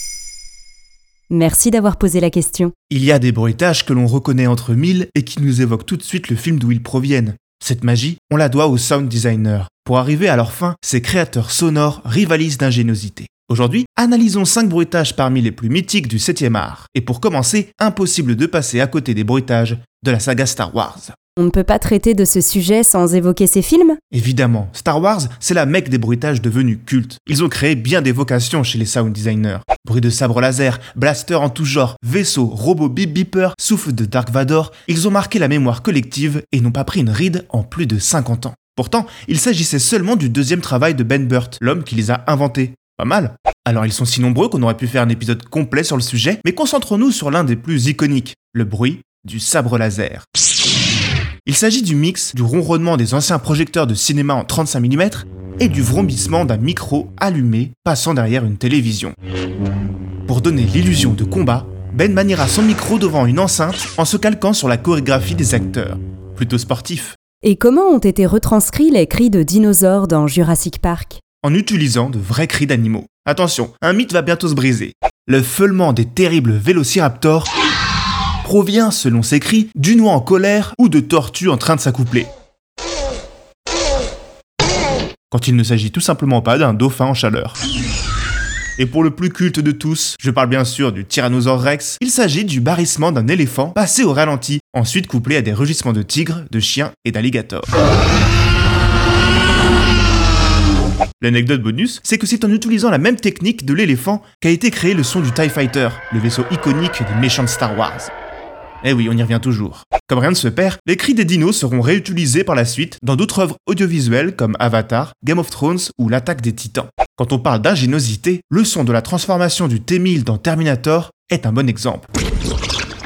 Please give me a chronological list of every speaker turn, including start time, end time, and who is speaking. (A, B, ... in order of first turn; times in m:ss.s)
0:01.3-0:02.7 A
0:02.9-0:21.2 B
0:21.4-0:24.0 A
0:24.1-0:50.3 B
0:51.4-0:59.2 B
1:00.3-1:07.2 B
1:07.4-1:11.2 A
1:11.4-1:17.5 B
1:18.4-1:22.3 B
1:25.3-1:27.6 B
1:28.8-1:37.7 B
1:41.2-1:48.1 B
1:48.8-2:02.1 B